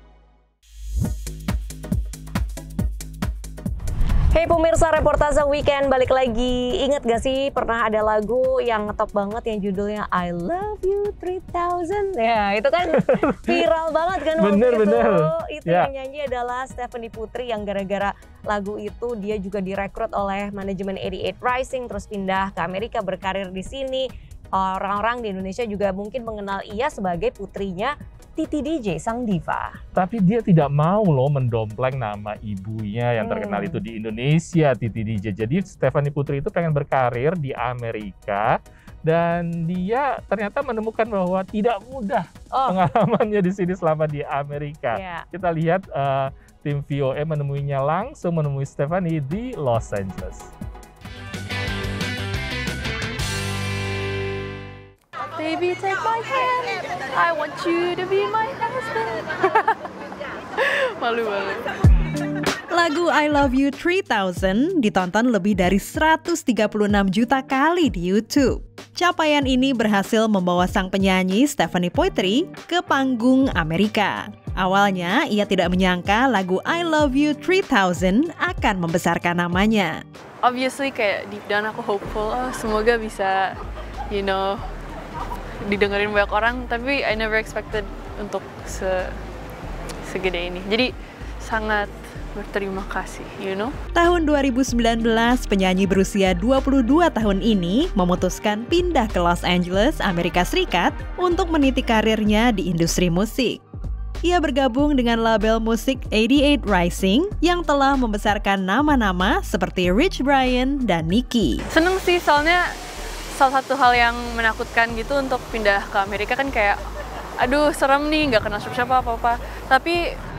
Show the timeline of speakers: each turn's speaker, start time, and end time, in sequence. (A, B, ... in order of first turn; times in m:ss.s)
0:04.3-0:29.8 A
0:13.0-0:13.6 B
0:14.4-0:15.9 B
0:29.9-0:50.5 B
0:33.2-0:33.8 A
0:44.9-0:45.2 A
0:55.4-0:59.8 C
1:00.6-1:01.6 C
1:02.7-1:20.0 D
1:20.4-1:23.5 C
1:24.1-1:24.6 C
1:25.7-1:29.1 C
1:30.1-1:30.9 C
1:31.4-1:33.7 C
1:33.9-1:43.6 D
1:44.2-1:51.6 D
1:51.7-1:52.6 C
1:53.4-1:56.8 C
1:57.4-2:00.0 C